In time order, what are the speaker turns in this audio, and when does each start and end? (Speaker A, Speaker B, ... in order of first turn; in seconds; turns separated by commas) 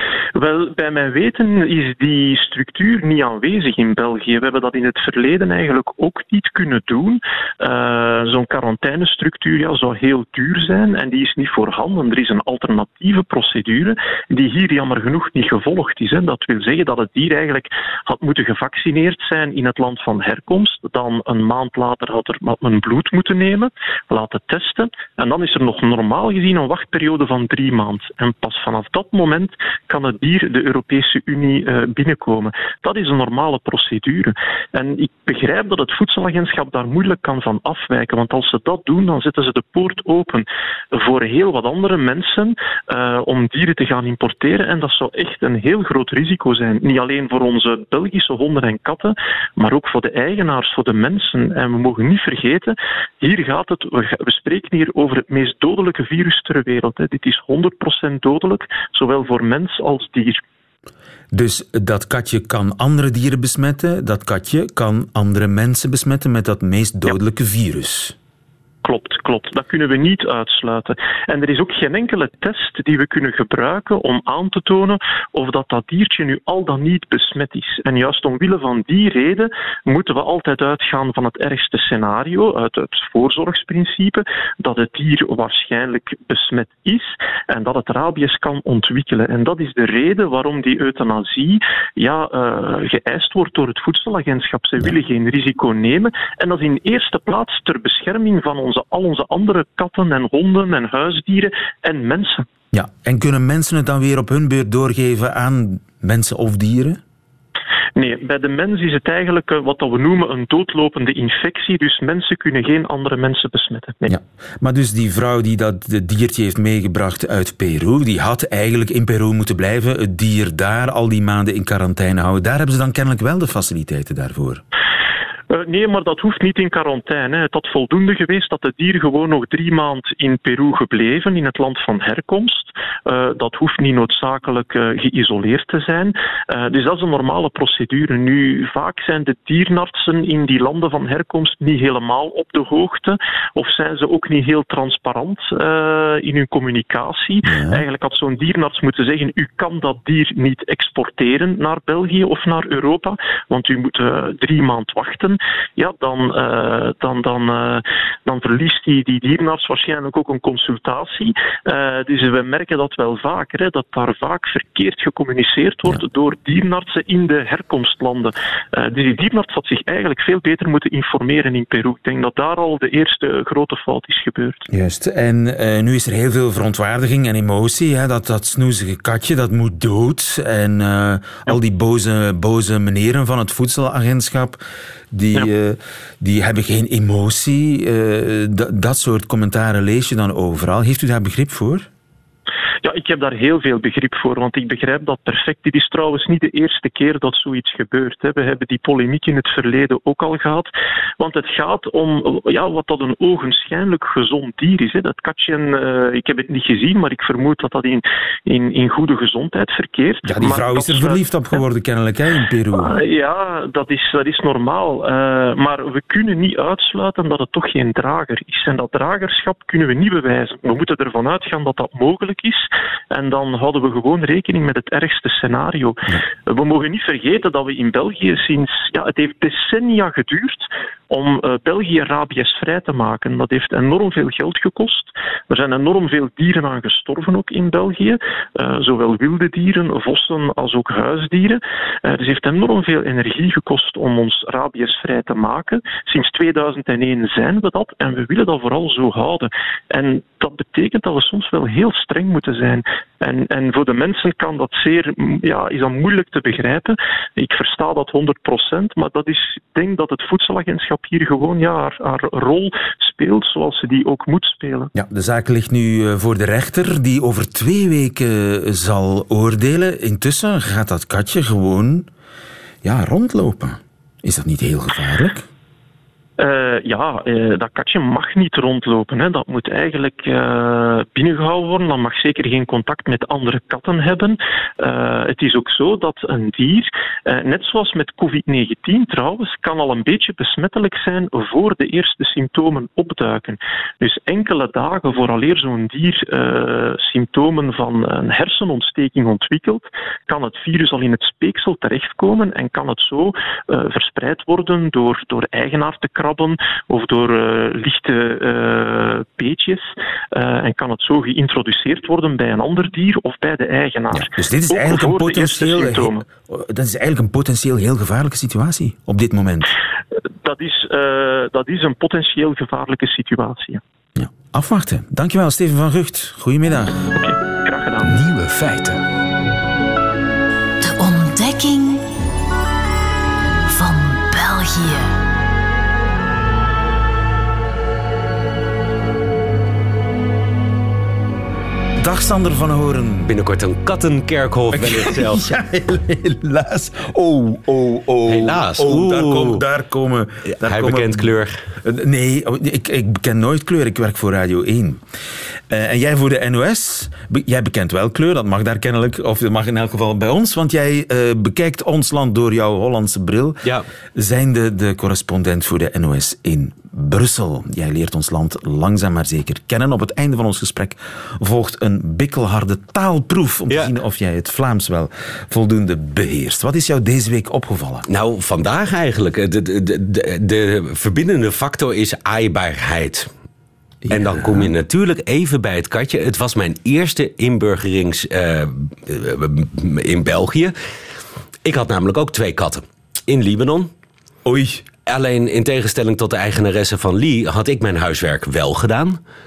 Speaker A: 0.3-60.4, Speaker B: 61.3-68.2, Speaker A: 68.8-102.5, Speaker B: 102.7-107.0, Speaker A: 108.0-114.2, Speaker B: 114.1-124.6, Speaker A: 125.5-174.7, Speaker B: 147.4-147.8, Speaker B: 174.7-184.6, Speaker B: 185.1-191.9, Speaker A: 192.8-211.6, Speaker B: 210.2-213.0, Speaker A: 212.8-264.9, Speaker B: 264.9-272.1, Speaker B: 272.8-275.5, Speaker A: 276.4-316.2, Speaker B: 314.1-319.7, Speaker A: 320.4-323.8, Speaker B: 324.2-327.1, Speaker A: 327.1-328.2, Speaker B: 328.0-329.0, Speaker C: 330.8-332.0, Speaker C: 333.7-335.1, Speaker B: 342.0-343.3, Speaker D: 343.3-345.4, Speaker B: 344.7-351.3, Speaker D: 348.3-349.6, Speaker D: 350.6-351.6, Speaker B: 351.8-355.0, Speaker B: 355.7-363.6, Speaker B: 364.1-378.1, Speaker D: 378.1-383.3, Speaker B: 384.0-384.7, Speaker D: 384.1-390.7, Speaker D: 391.6-393.9, Speaker B: 394.4-394.8, Speaker D: 395.1-399.2